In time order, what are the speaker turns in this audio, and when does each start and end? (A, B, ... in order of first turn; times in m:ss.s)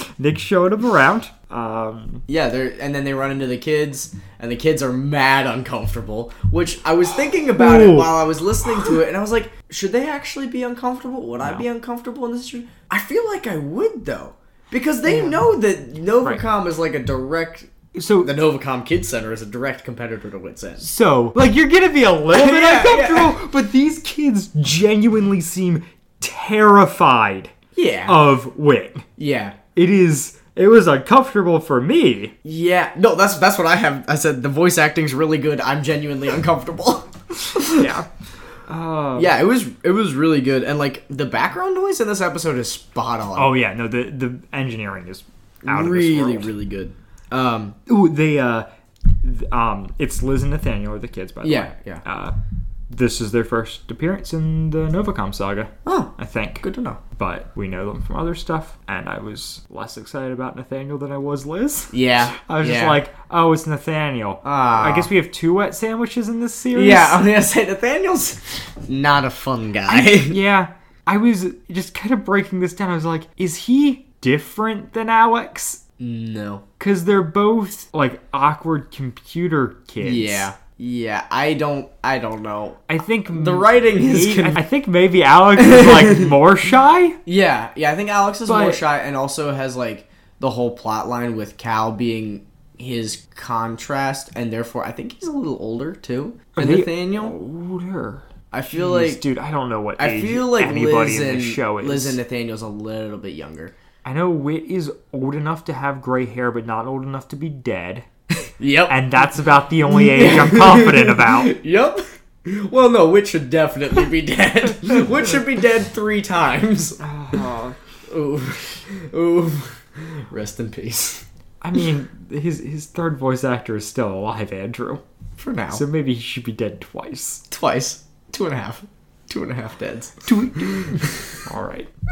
0:00.2-0:02.2 A
0:02.3-0:20.8 B
0:07.6-0:08.2 A
0:15.1-0:15.4 A
0:17.9-0:18.3 A
0:20.8-0:27.5 A
0:22.3-0:23.4 B
0:27.8-0:28.2 B
0:28.1-0:29.1 A
0:29.2-0:29.6 B
0:29.8-0:32.3 A
0:32.4-0:37.9 B
0:37.7-0:38.1 A
0:38.7-0:39.3 A
0:39.2-0:43.5 B
0:43.4-0:46.5 A
0:45.6-0:47.8 B
0:47.9-0:48.7 A
0:49.2-0:52.3 A
0:51.4-0:52.0 B
0:52.9-0:56.6 A
0:55.8-0:57.0 B
0:57.2-1:07.2 A
1:01.9-1:03.0 B
1:04.4-1:05.1 B
1:06.8-1:10.4 B
1:09.9-1:15.8 A
1:16.0-1:16.6 B
1:16.8-1:20.5 A
1:20.0-1:24.6 B
1:22.9-1:27.2 A
1:25.6-1:26.4 B
1:27.3-1:37.4 B
1:28.5-1:28.8 A
1:36.6-1:42.2 A
1:38.5-1:39.2 B
1:40.0-1:43.7 B
1:44.0-1:48.1 A
1:48.6-1:49.0 B
1:48.9-1:51.5 A
1:49.9-1:57.0 B
1:57.0-1:57.8 A
1:58.1-2:01.2 B
2:01.6-2:05.0 A
2:05.4-2:05.8 B
2:05.7-2:07.4 A
2:07.5-2:11.3 B
2:10.2-2:11.9 A